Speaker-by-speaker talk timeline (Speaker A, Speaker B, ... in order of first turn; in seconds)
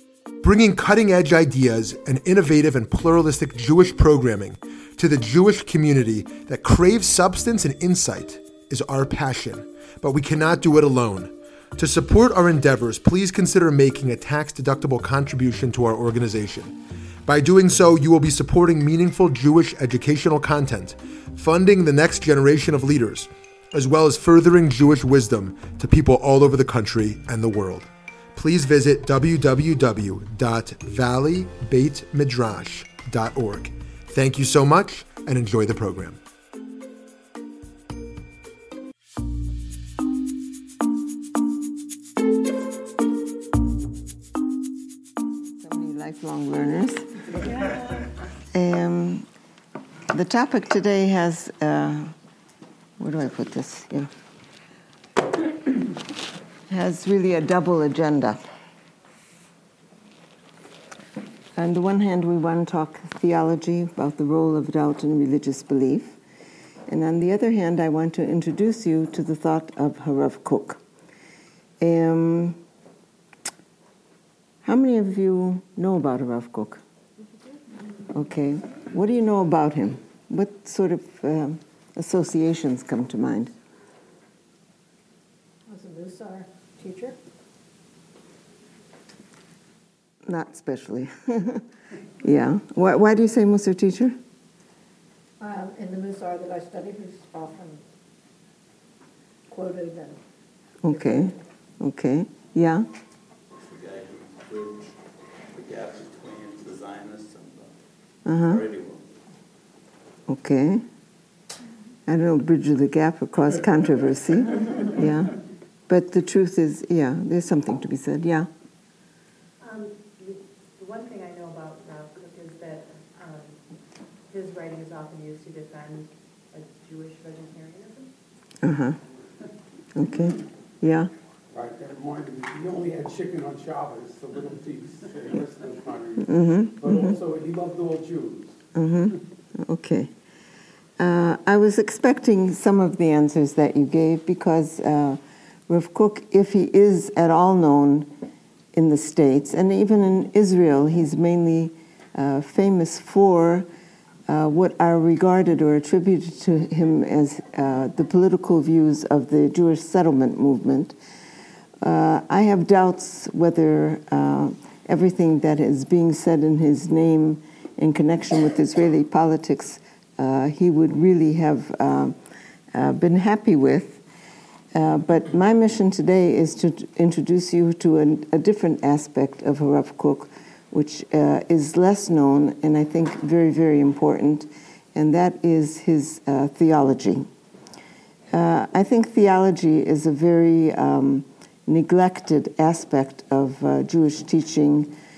Speaker A: 0.4-36.2
Speaker B: 45.6-47.3, 48.5-49.3, 50.1-52.1, 53.0-54.1, 56.7-58.4, 61.6-66.2, 66.9-70.8, 71.8-72.6, 74.6-76.8, 78.1-83.5, 90.3-91.6, 92.2-94.2, 100.8-102.8, 108.3-108.6, 110.3-110.8, 112.1-115.4, 115.9-118.5, 128.6-129.0, 129.9-131.1, 136.3-137.1, 138.8-140.1, 141.0-148.1, 148.7-153.7, 154.3-161.0, 161.8-172.2, 172.7-174.0, 174.7-187.3, 188.3-194.9
Speaker C: 85.7-87.2, 95.4-97.8, 99.5-100.2
Speaker D: 103.6-105.0, 105.5-107.7, 108.3-109.1
Speaker E: 119.6-123.6, 124.3-128.1
Speaker F: 131.5-138.6